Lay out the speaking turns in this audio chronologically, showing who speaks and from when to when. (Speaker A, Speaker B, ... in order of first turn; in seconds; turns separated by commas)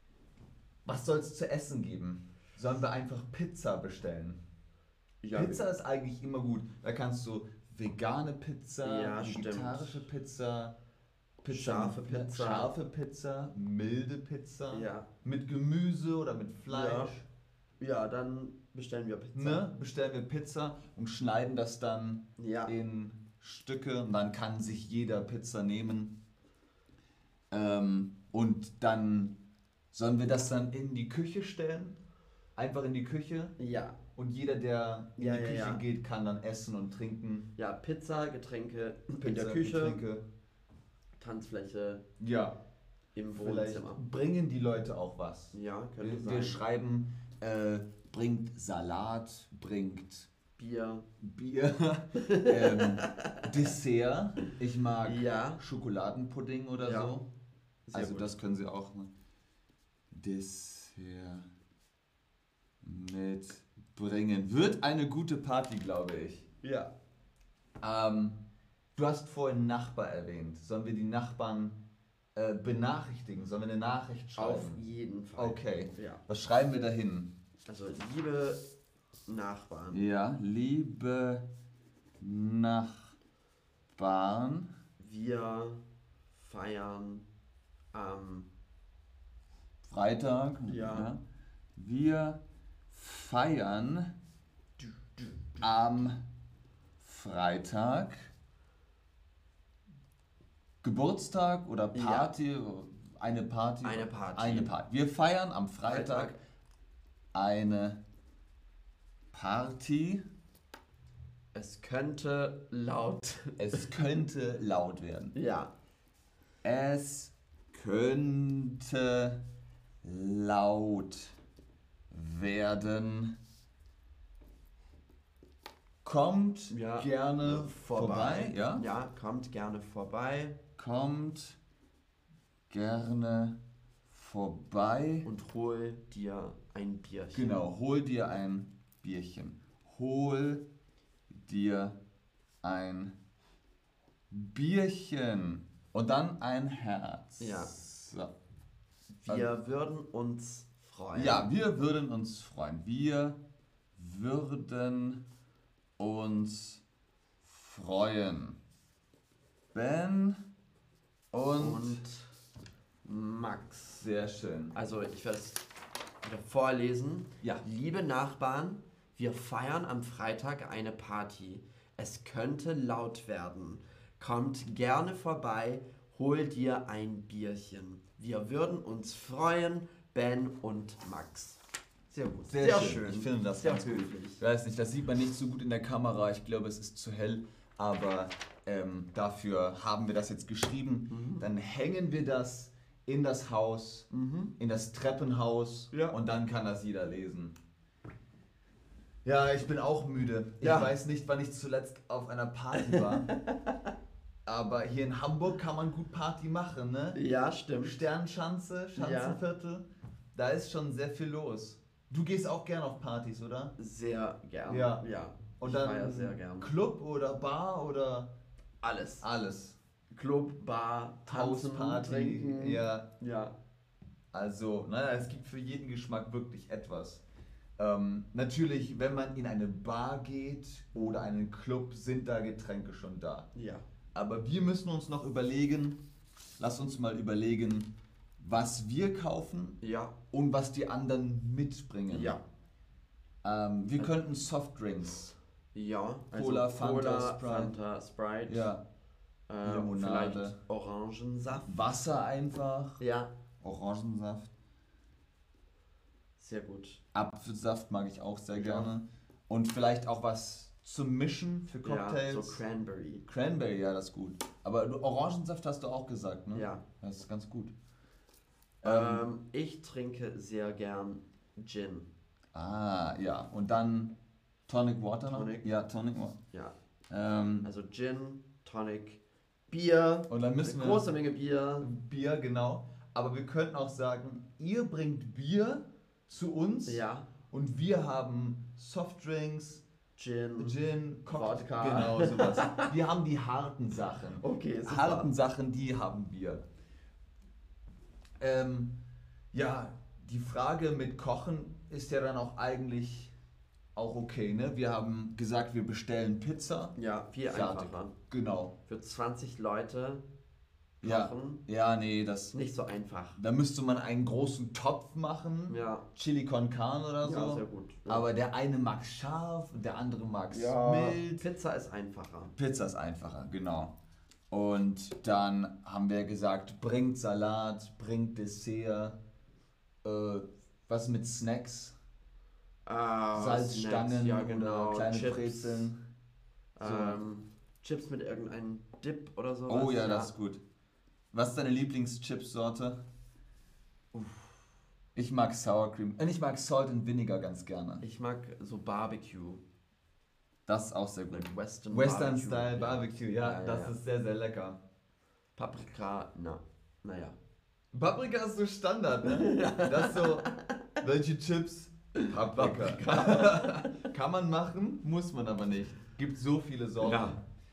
Speaker A: 0.8-4.4, Speaker B: 5.2-5.6, Speaker A: 5.3-10.8, Speaker B: 8.8-10.1, Speaker A: 11.4-17.3, Speaker B: 11.5-12.8, Speaker B: 14.7-15.1, Speaker B: 16.7-17.1, Speaker B: 17.8-19.6, Speaker A: 19.3-26.1, Speaker B: 22.4-22.7, Speaker A: 27.5-29.3, Speaker A: 29.9-32.0, Speaker A: 32.5-33.5, Speaker B: 33.6-34.0, Speaker A: 34.1-37.5, Speaker B: 35.2-35.8, Speaker B: 37.5-40.0, Speaker A: 39.2-40.2, Speaker B: 41.2-42.0, Speaker A: 42.2-42.6, Speaker B: 43.1-44.0, Speaker A: 43.4-50.3, Speaker B: 45.5-46.6, Speaker B: 50.6-51.1, Speaker A: 51.2-57.3, Speaker B: 52.1-53.4, Speaker B: 55.0-55.6, Speaker B: 56.8-57.1, Speaker B: 57.9-58.3, Speaker A: 57.9-59.1, Speaker A: 60.1-61.5, Speaker A: 62.8-66.5, Speaker B: 66.6-66.9, Speaker A: 67.8-68.4, Speaker A: 69.0-71.8, Speaker A: 72.3-74.8, Speaker B: 74.3-76.2, Speaker A: 75.4-77.3, Speaker B: 77.7-78.6, Speaker B: 79.2-80.0, Speaker A: 79.9-81.5, Speaker A: 82.2-83.2, Speaker A: 83.9-84.7, Speaker B: 85.0-85.8, Speaker B: 86.3-87.3, Speaker B: 87.9-88.5, Speaker A: 89.8-91.2, Speaker B: 90.7-91.1, Speaker A: 91.8-94.1, Speaker B: 94.8-95.8, Speaker A: 95.6-96.2, Speaker A: 97.0-98.3, Speaker A: 100.8-106.3, Speaker B: 101.9-102.3, Speaker B: 103.8-104.7, Speaker B: 105.8-106.4, Speaker A: 107.3-108.0, Speaker A: 109.3-110.2, Speaker B: 111.5-114.0, Speaker A: 113.6-115.3, Speaker B: 115.3-115.7, Speaker A: 116.6-119.4, Speaker A: 120.0-121.3, Speaker A: 122.1-123.3, Speaker A: 126.0-128.8, Speaker B: 126.7-130.6, Speaker A: 130.8-131.6, Speaker A: 132.7-135.3, Speaker B: 135.2-137.6, Speaker A: 137.3-140.6, Speaker A: 141.3-142.0, Speaker A: 142.6-143.1, Speaker A: 144.3-148.3, Speaker B: 147.4-147.7, Speaker B: 149.2-151.5, Speaker A: 151.1-153.4, Speaker A: 153.9-155.2, Speaker A: 156.0-156.8, Speaker A: 157.4-158.6, Speaker A: 159.7-160.4, Speaker A: 161.3-162.0, Speaker B: 161.6-162.3, Speaker B: 163.0-164.1, Speaker A: 164.0-164.8, Speaker B: 164.7-165.7, Speaker B: 166.2-184.4, Speaker A: 182.5-197.5, Speaker B: 191.1-191.5, Speaker B: 194.1-194.5, Speaker B: 195.9-196.2, Speaker A: 199.2-203.3, Speaker B: 200.6-200.9, Speaker B: 202.8-203.7, Speaker A: 204.4-207.2, Speaker B: 207.1-208.1, Speaker A: 207.8-213.7, Speaker B: 208.9-209.4, Speaker B: 213.8-216.7, Speaker A: 214.7-215.0, Speaker A: 215.6-218.3, Speaker B: 218.8-219.2, Speaker A: 219.2-219.8, Speaker B: 220.1-223.6, Speaker A: 221.2-223.1, Speaker A: 224.3-227.2, Speaker A: 227.8-233.5, Speaker B: 233.5-233.8, Speaker A: 234.1-236.0, Speaker A: 236.6-239.8, Speaker B: 239.8-240.1, Speaker A: 240.3-242.4, Speaker B: 242.1-242.4, Speaker A: 243.4-245.3, Speaker B: 245.7-248.7, Speaker A: 246.3-247.7, Speaker A: 248.5-248.8, Speaker B: 249.5-251.8, Speaker A: 249.6-250.6, Speaker A: 251.7-253.0, Speaker B: 253.0-253.3, Speaker A: 253.6-254.5, Speaker B: 256.4-257.0, Speaker A: 257.1-262.6, Speaker B: 258.5-258.9, Speaker B: 261.8-263.2, Speaker A: 263.3-267.7, Speaker B: 266.5-266.8, Speaker A: 268.8-269.3, Speaker B: 268.8-272.1, Speaker A: 272.5-274.1, Speaker A: 274.7-276.4, Speaker B: 275.3-275.7, Speaker A: 277.1-277.7, Speaker B: 277.6-281.9, Speaker A: 280.3-281.1, Speaker A: 281.8-289.8, Speaker B: 286.9-287.3, Speaker B: 290.1-292.9, Speaker A: 290.6-296.6, Speaker B: 294.4-295.3, Speaker A: 298.4-299.0, Speaker A: 299.5-303.3, Speaker A: 303.9-306.9, Speaker B: 306.9-308.1, Speaker A: 307.5-308.7, Speaker B: 308.9-310.2, Speaker B: 311.0-311.6, Speaker A: 311.0-312.5, Speaker B: 312.5-313.4, Speaker A: 313.4-321.5, Speaker B: 315.7-316.0, Speaker B: 317.2-318.3, Speaker B: 320.5-322.5, Speaker A: 322.6-323.9, Speaker A: 324.5-329.2, Speaker A: 330.0-331.9, Speaker B: 332.9-335.9, Speaker A: 333.3-336.0, Speaker B: 336.8-340.3, Speaker A: 336.8-337.2, Speaker A: 339.7-340.6, Speaker A: 341.3-343.0, Speaker A: 345.1-348.0, Speaker B: 348.0-349.6, Speaker A: 350.7-354.8, Speaker B: 351.3-353.9, Speaker B: 355.6-357.4, Speaker A: 357.9-367.4, Speaker B: 359.2-360.5, Speaker B: 362.6-364.1, Speaker B: 367.0-367.4